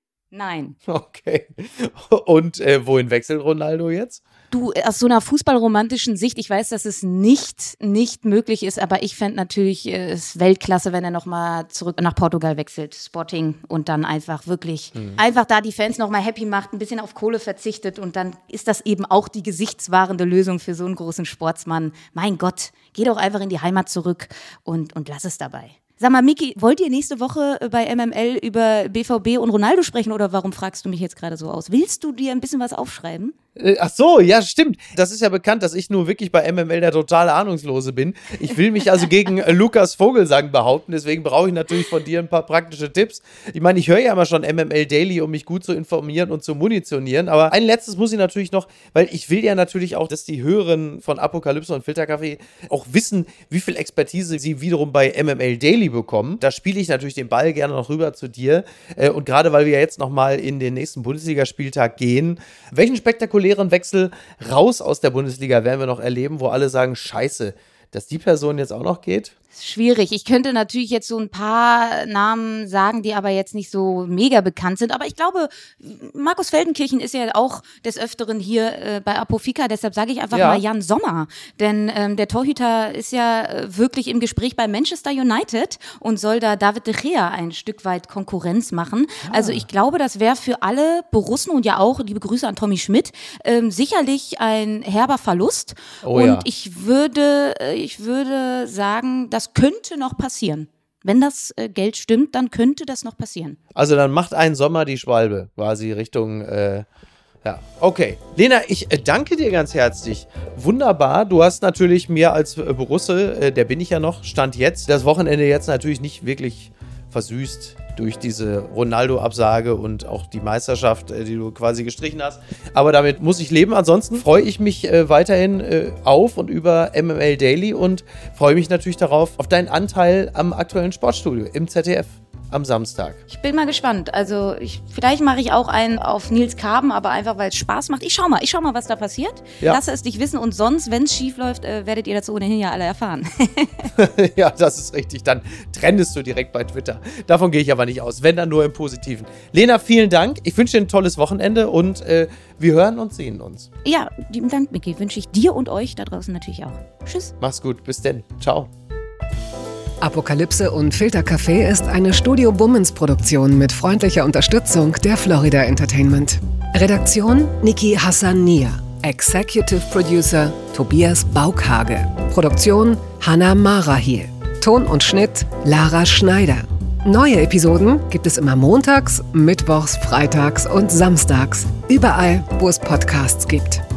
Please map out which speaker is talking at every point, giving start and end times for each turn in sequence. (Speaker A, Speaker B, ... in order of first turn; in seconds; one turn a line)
Speaker A: 0.3-0.8
Speaker B: 0.9-4.2
Speaker A: 4.5-33.3
Speaker B: 33.5-69.3
Speaker A: 69.5-103.6
Speaker B: 80.3-80.6
Speaker B: 89.2-89.7
Speaker B: 96.0-96.5
Speaker B: 103.7-106.8
Speaker B: 107.4-133.2
Speaker A: 133.3-143.9
Speaker B: 143.9-153.7
Speaker A: 153.8-157.3
Speaker B: 157.4-158.7
Speaker C: 160.0-183.8